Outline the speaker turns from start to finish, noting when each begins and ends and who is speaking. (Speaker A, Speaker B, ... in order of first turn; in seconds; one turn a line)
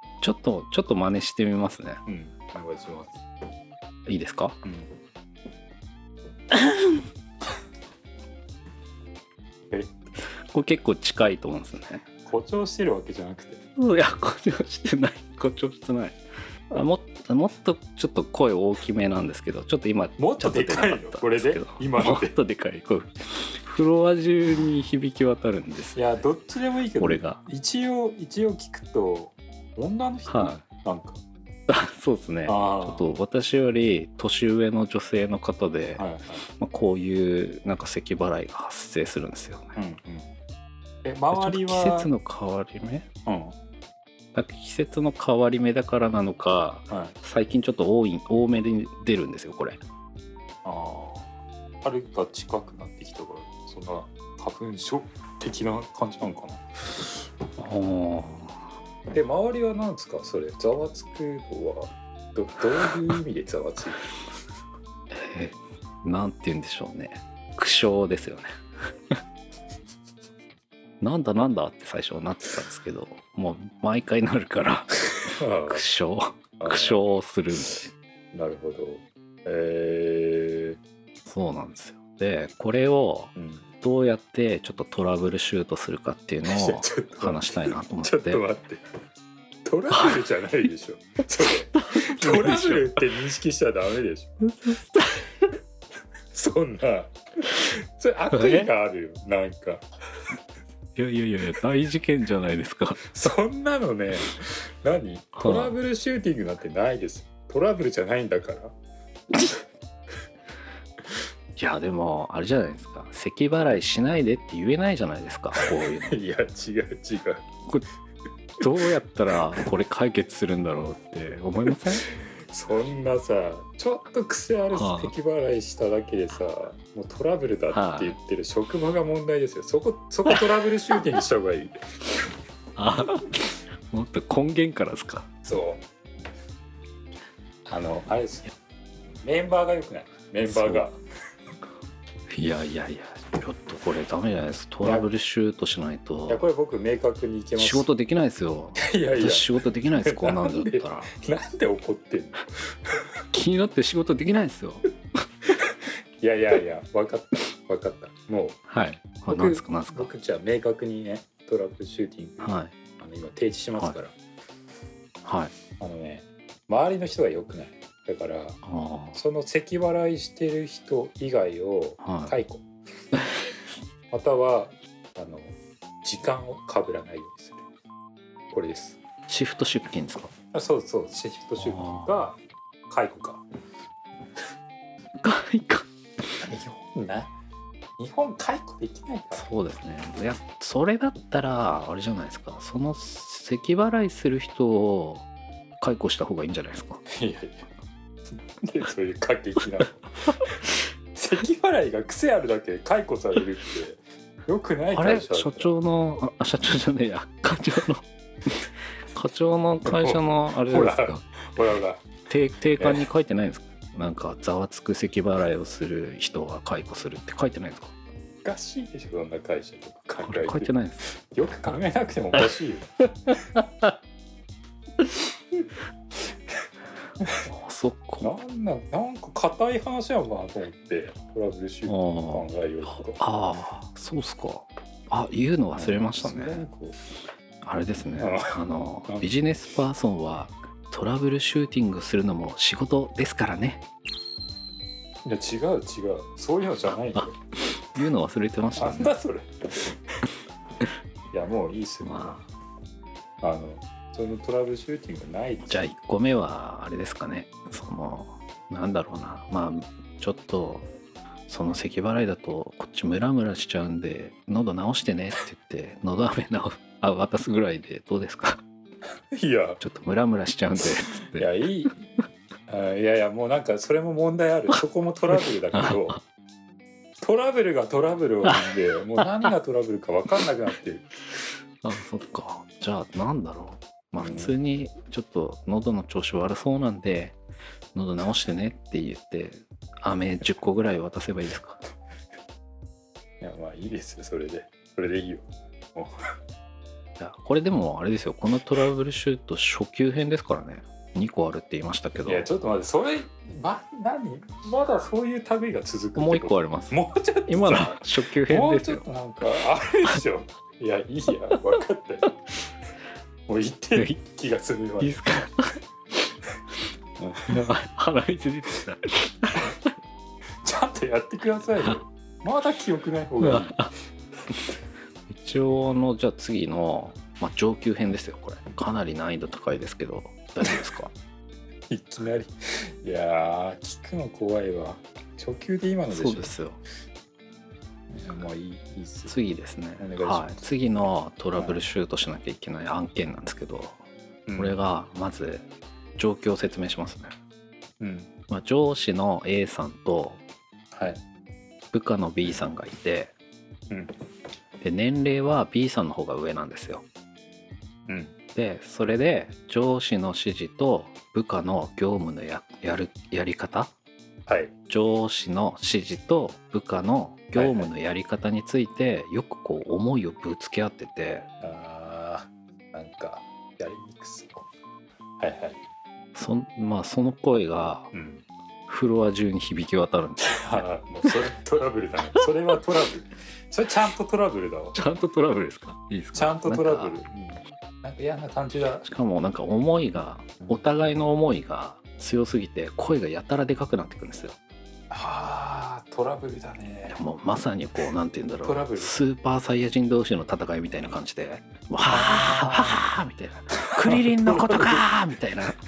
Speaker A: 0.2-2.0
Speaker B: 2.0-3.2
Speaker A: 4.0-4.6
Speaker A: 10.5-12.1
Speaker B: 12.2-13.6
Speaker A: 13.8-16.2
Speaker A: 16.7-26.2
Speaker B: 20.2-22.3
Speaker B: 25.9-31.2
Speaker A: 27.0-27.4
Speaker A: 30.3-30.6
Speaker A: 31.7-39.7
Speaker B: 32.5-33.1
Speaker B: 36.0-36.4
Speaker B: 39.8-40.3
Speaker B: 41.0-42.1
Speaker A: 41.3-43.1
Speaker B: 43.2-43.5
Speaker A: 44.3-49.8
Speaker B: 46.9-47.1
Speaker B: 50.6-56.6
Speaker A: 57.6-58.6
Speaker B: 59.1-64.1
Speaker A: 65.1-68.5
Speaker A: 71.0-77.9
Speaker B: 75.3-75.8
Speaker B: 76.6-77.0
Speaker B: 78.3-80.8
Speaker A: 81.2-88.4
Speaker B: 83.3-83.7
Speaker B: 86.4-88.8
Speaker B: 89.6-94.4
Speaker A: 91.9-92.9
Speaker A: 94.4-95.2
Speaker B: 96.3-99.8
Speaker A: 98.3-98.7
Speaker A: 101.0-103.0
Speaker B: 103.1-108.7
Speaker A: 105.4-105.7
Speaker A: 111.5-116.2
Speaker B: 115.6-117.5
Speaker A: 118.6-122.0
Speaker B: 122.5-131.7
Speaker A: 124.7-125.1
Speaker A: 127.7-128.2
Speaker A: 132.8-135.3
Speaker B: 135.4-135.8
Speaker B: 137.7-138.5
Speaker B: 139.2-141.0
Speaker A: 140.4-140.9
Speaker A: 142.3-146.4
Speaker B: 144.8-145.1
Speaker B: 146.3-147.9
Speaker A: 147.6-151.1
Speaker B: 148.8-152.4
Speaker A: 153.3-154.8
Speaker B: 156.2-158.6
Speaker A: 158.7-160.1
Speaker B: 159.3-164.1
Speaker A: 162.4-162.7
Speaker A: 165.2-165.5
Speaker B: 165.8-168.6
Speaker A: 168.6-169.2
Speaker B: 169.1-172.7
Speaker A: 172.0-172.3
Speaker B: 174.1-177.6
Speaker B: 178.5-179.0
Speaker A: 179.3-180.3
Speaker B: 180.5-183.4
Speaker A: 181.6-182.1
Speaker A: 185.2-185.9
Speaker B: 186.4-187.3
Speaker B: 188.0-189.5
Speaker A: 189.3-195.2
Speaker A: 195.8-197.0
Speaker B: 197.1-197.6
Speaker B: 198.6-200.6
Speaker B: 201.1-205.7
Speaker A: 204.9-211.2
Speaker B: 209.8-212.1
Speaker A: 212.3-217.9
Speaker B: 212.8-213.1
Speaker B: 218.4-223.0
Speaker A: 220.2-221.1
Speaker A: 227.5-228.3
Speaker B: 228.2-233.2
Speaker A: 231.9-232.4
Speaker A: 233.1-236.6
Speaker B: 235.7-237.0
Speaker A: 237.6-243.8
Speaker B: 238.2-239.3
Speaker B: 245.2-247.3
Speaker A: 247.9-249.1
Speaker B: 248.8-249.9
Speaker B: 251.3-252.4
Speaker A: 252.0-252.4
Speaker B: 253.4-255.9
Speaker A: 255.6-260.9
Speaker A: 261.5-268.6
Speaker B: 269.3-269.8
Speaker A: 269.8-271.5
Speaker B: 271.4-272.0
Speaker B: 272.7-276.2
Speaker B: 277.2-281.1
Speaker A: 281.8-287.4
Speaker B: 284.2-284.5
Speaker A: 287.9-291.8
Speaker B: 293.4-296.1
Speaker A: 297.2-302.5
Speaker B: 302.2-312.4
Speaker A: 306.1-309.0
Speaker B: 313.5-315.2
Speaker A: 315.0-315.7
Speaker B: 317.2-317.6
Speaker A: 317.5-319.8
Speaker B: 320.6-323.8
Speaker A: 323.4-323.9
Speaker A: 325.3-331.1
Speaker B: 331.9-336.5
Speaker A: 336.1-336.8
Speaker B: 338.1-339.4
Speaker A: 339.3-344.0
Speaker B: 340.0-340.7
Speaker B: 341.6-341.8
Speaker B: 344.5-344.8
Speaker A: 344.6-347.3
Speaker B: 348.0-348.3
Speaker A: 348.5-350.4
Speaker B: 350.9-351.2
Speaker A: 351.9-353.3
Speaker B: 352.4-352.7
Speaker A: 354.8-357.1
Speaker B: 358.1-358.3
Speaker A: 358.5-363.9
Speaker B: 364.5-364.7
Speaker A: 364.9-371.5
Speaker B: 367.5-367.9
Speaker B: 371.6-374.6
Speaker B: 375.4-375.8
Speaker A: 376.3-378.1
Speaker B: 378.1-378.4
Speaker A: 378.9-380.8
Speaker B: 380.5-385.0
Speaker A: 384.9-387.1
Speaker B: 386.3-389.0
Speaker A: 389.0-394.6
Speaker B: 395.1-397.2
Speaker A: 397.1-405.8
Speaker B: 398.6-399.1
Speaker B: 402.0-403.0
Speaker B: 403.7-405.0